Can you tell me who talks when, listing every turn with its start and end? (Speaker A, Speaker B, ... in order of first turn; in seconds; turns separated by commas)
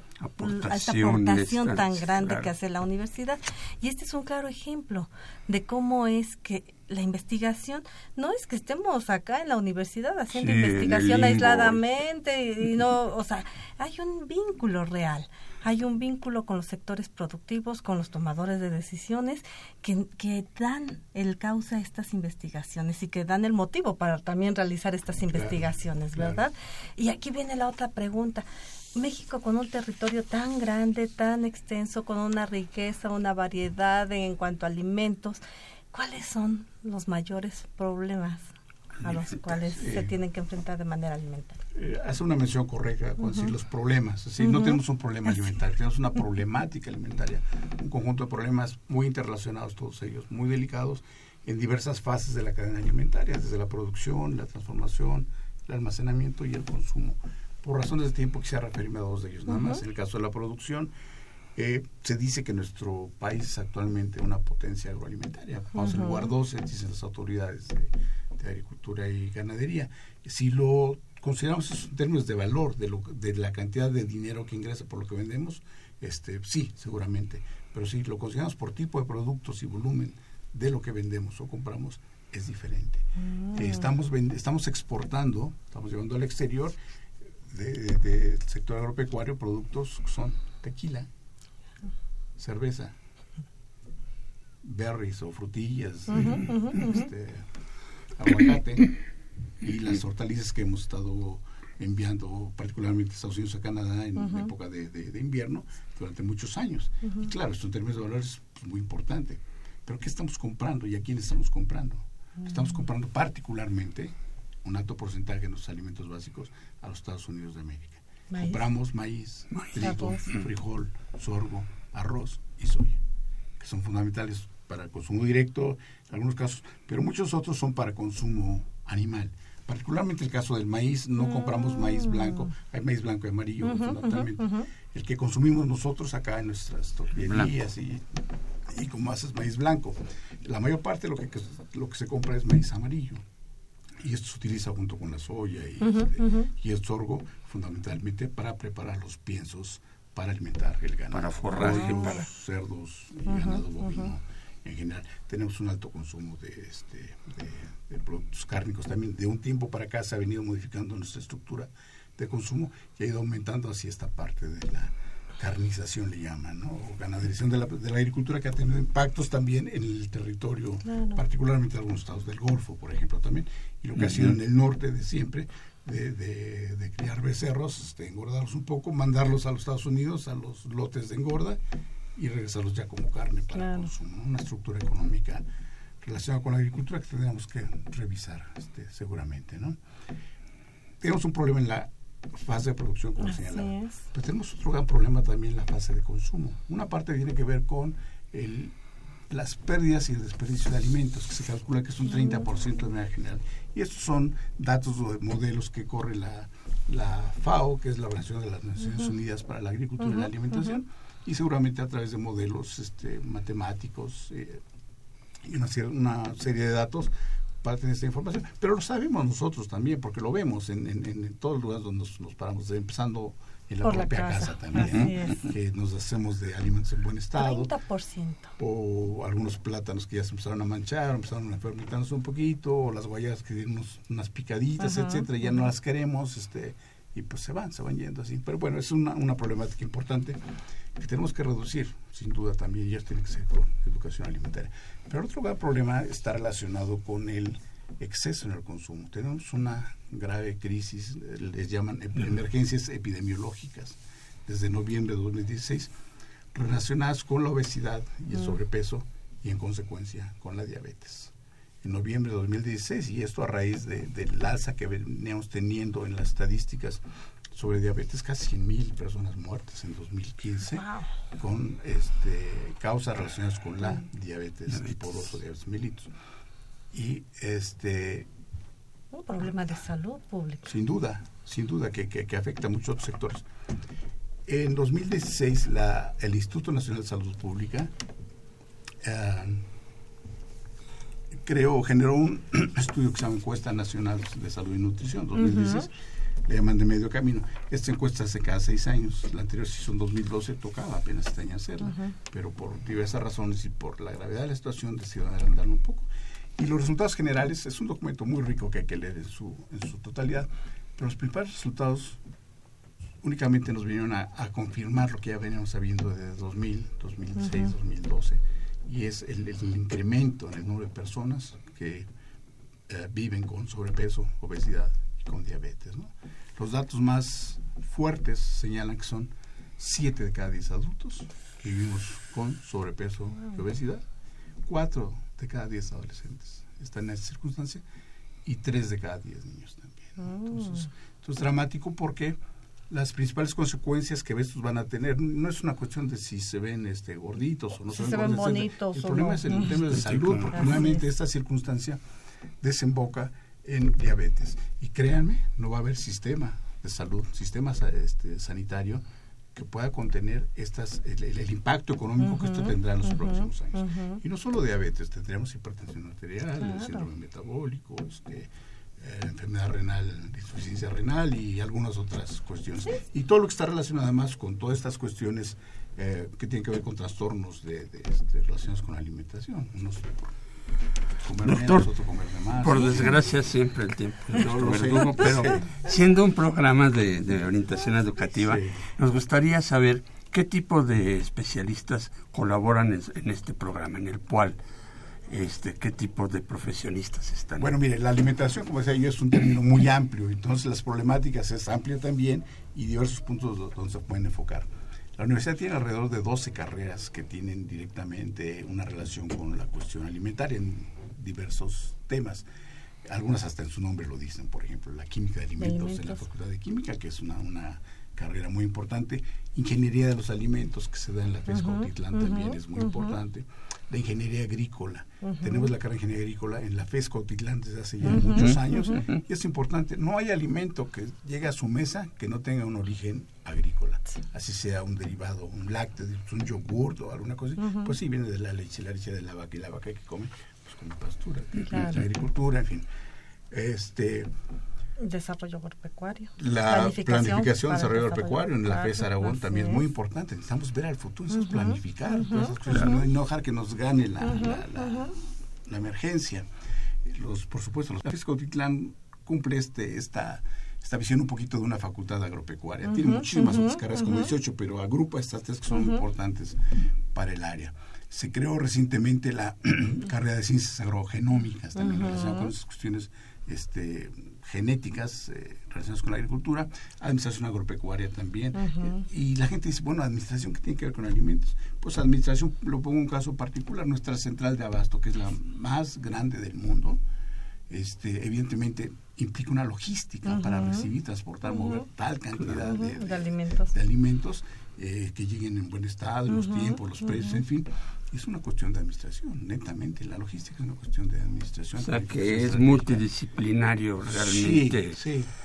Speaker A: 0.2-2.5, Speaker B: 0.4-35.4, Speaker A: 10.3-11.8, Speaker C: 25.3-26.4, Speaker B: 35.9-41.6, Speaker C: 39.6-40.1, Speaker C: 41.7-60.9, Speaker B: 44.4-44.7, Speaker C: 61.5-86.8, Speaker B: 65.8-66.1, Speaker B: 83.2-83.8, Speaker C: 87.4-91.1, Speaker C: 92.4-92.9, Speaker C: 94.6-97.5, Speaker B: 96.1-97.0, Speaker C: 98.1-98.9, Speaker C: 99.6-123.0, Speaker B: 118.3-118.6, Speaker A: 119.5-120.4, Speaker B: 119.8-120.2, Speaker C: 123.6-138.0, Speaker B: 133.6-134.6, Speaker A: 137.2-137.5, Speaker C: 138.7-143.2, Speaker C: 144.0-181.6, Speaker B: 145.9-146.4, Speaker A: 151.1-152.3, Speaker B: 170.8-171.2, Speaker A: 173.9-174.3, Speaker C: 182.1-185.5, Speaker B: 183.5-183.9, Speaker C: 186.0-189.8, Speaker C: 191.0-198.8, Speaker B: 193.2-194.0, Speaker C: 199.3-214.6, Speaker C: 215.4-227.7, Speaker B: 223.8-225.4, Speaker B: 227.4-228.5, Speaker C: 228.6-240.4, Speaker B: 234.8-235.3, Speaker C: 240.9-255.9, Speaker C: 256.5-276.1, Speaker B: 270.7-271.1, Speaker A: 274.7-275.4, Speaker C: 276.9-278.3, Speaker B: 279.1-280.7, Speaker C: 280.6-283.4, Speaker C: 284.5-287.9, Speaker C: 289.0-289.7, Speaker C: 291.3-295.9, Speaker C: 296.4-312.2, Speaker C: 313.2-322.1, Speaker C: 322.9-334.0, Speaker C: 334.6-337.8, Speaker C: 338.4-352.0, Speaker B: 340.2-340.9, Speaker B: 347.9-349.8, Speaker A: 349.7-350.8, Speaker B: 350.5-351.0, Speaker C: 352.6-380.3, Speaker B: 362.2-364.2, Speaker B: 366.6-367.0, Speaker C: 381.2-383.1, Speaker A: 381.4-381.9, Speaker A: 382.6-394.6, Speaker C: 384.3-385.6, Speaker C: 388.4-388.8, Speaker A: 395.3-397.7, Speaker C: 397.6-412.4, Speaker C: 413.0-442.9, Speaker B: 415.6-416.2, Speaker B: 421.5-423.1, Speaker B: 425.2-425.7, Speaker A: 428.1-429.2, Speaker B: 437.6-437.9, Speaker B: 441.7-442.0, Speaker C: 443.5-444.3, Speaker B: 445.0-449.8, Speaker C: 446.4-456.5, Speaker B: 451.3-452.8, Speaker B: 454.2-455.1, Speaker C: 457.0-487.0, Speaker B: 462.9-463.8, Speaker B: 471.9-472.4, Speaker C: 487.7-503.0, Speaker B: 490.3-490.9, Speaker B: 491.5-491.8, Speaker B: 492.7-493.7, Speaker B: 496.3-497.4, Speaker A: 501.8-505.0, Speaker C: 504.1-505.3